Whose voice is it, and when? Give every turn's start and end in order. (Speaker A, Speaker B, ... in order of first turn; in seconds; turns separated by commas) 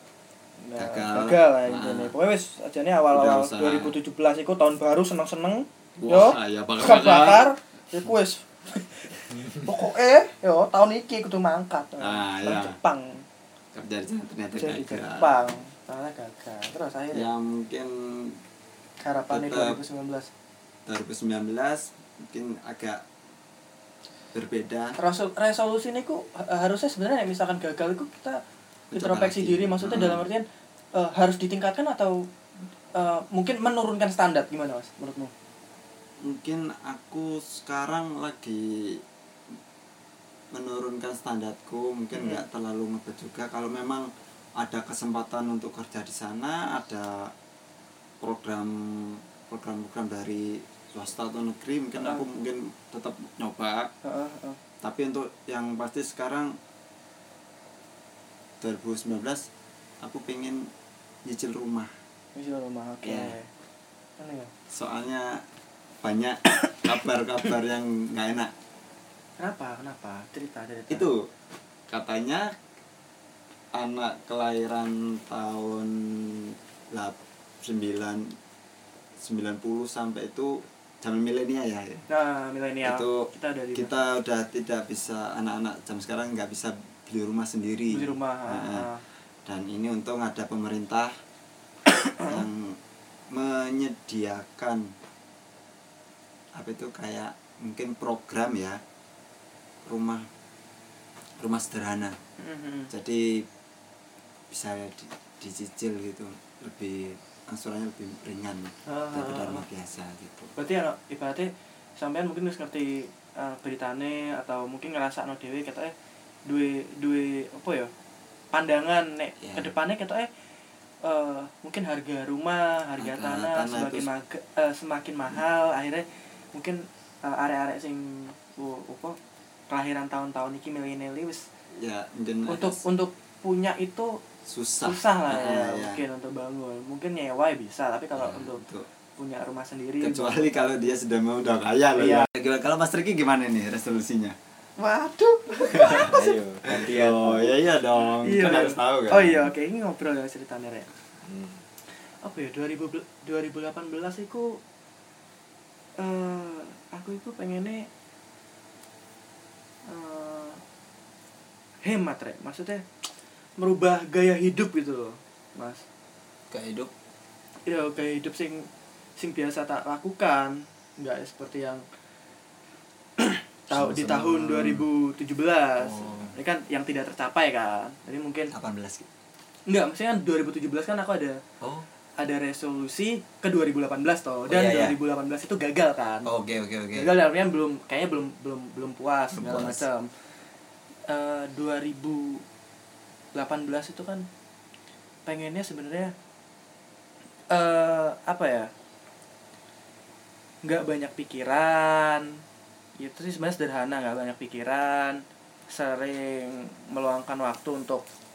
Speaker A: 0.6-13.2, Speaker B: 0.8-2.1, Speaker B: 3.1-4.0, Speaker B: 6.0-7.5, Speaker B: 12.0-12.8, Speaker B: 13.7-15.4, Speaker A: 14.6-17.2, Speaker B: 17.1-18.4, Speaker A: 19.0-20.3, Speaker B: 19.3-19.8, Speaker B: 20.9-23.0, Speaker B: 24.3-25.0, Speaker A: 25.0-28.4, Speaker B: 28.9-30.2, Speaker A: 28.9-32.3, Speaker A: 32.9-35.3, Speaker B: 36.2-39.0, Speaker B: 40.5-44.1, Speaker A: 42.1-42.4, Speaker B: 44.6-47.3, Speaker B: 48.2-53.9, Speaker A: 54.0-54.6, Speaker B: 54.8-56.5, Speaker B: 58.6-59.5, Speaker B: 60.0-60.7, Speaker B: 61.2-61.9, Speaker A: 62.3-63.5, Speaker B: 63.0-63.3, Speaker A: 64.2-64.5, Speaker B: 64.7-65.4, Speaker B: 66.0-68.5, Speaker A: 69.4-71.1, Speaker B: 70.9-71.2, Speaker B: 71.9-72.5, Speaker B: 73.7-78.4, Speaker B: 79.2-82.0, Speaker A: 82.1-83.9, Speaker B: 82.8-88.9, Speaker A: 87.9-89.0, Speaker B: 89.4-91.1, Speaker A: 91.9-92.4, Speaker B: 92.2-92.8, Speaker B: 93.3-94.9, Speaker B: 96.5-98.8, Speaker B: 99.8-100.3, Speaker B: 101.4-102.2, Speaker A: 102.4-102.9, Speaker B: 102.9-103.5, Speaker B: 104.5-110.5, Speaker A: 108.9-109.6, Speaker A: 110.5-115.9, Speaker A: 116.5-117.9, Speaker A: 118.5-120.3, Speaker B: 119.4-119.7, Speaker A: 121.0-129.2, Speaker B: 123.0-124.1, Speaker A: 129.7-131.4, Speaker B: 131.7-132.8, Speaker A: 132.5-134.2, Speaker B: 134.4-136.0, Speaker A: 134.8-138.6, Speaker B: 138.2-138.9, Speaker A: 139.2-140.9, Speaker B: 140.0-144.4, Speaker A: 142.0-142.3, Speaker A: 144.8-146.2, Speaker B: 145.7-149.5, Speaker C: 146.0-147.6, Speaker A: 148.2-150.9, Speaker C: 151.2-151.6, Speaker A: 152.0-154.6, Speaker A: 156.0-157.9, Speaker A: 159.8-160.6, Speaker A: 161.8-162.8, Speaker A: 163.6-165.8, Speaker B: 166.5-166.9, Speaker A: 167.7-171.8, Speaker A: 173.2-178.5, Speaker B: 173.7-174.9, Speaker B: 175.8-176.3, Speaker B: 178.5-179.1, Speaker A: 179.7-181.4, Speaker B: 181.6-181.8, Speaker A: 182.2-186.3, Speaker B: 184.5-184.9, Speaker B: 186.2-187.2, Speaker A: 186.9-190.1, Speaker B: 189.3-189.8, Speaker A: 191.1-192.4, Speaker A: 193.3-194.2, Speaker A: 195.2-196.1, Speaker A: 197.5-198.7, Speaker A: 200.6-202.4, Speaker A: 203.0-208.0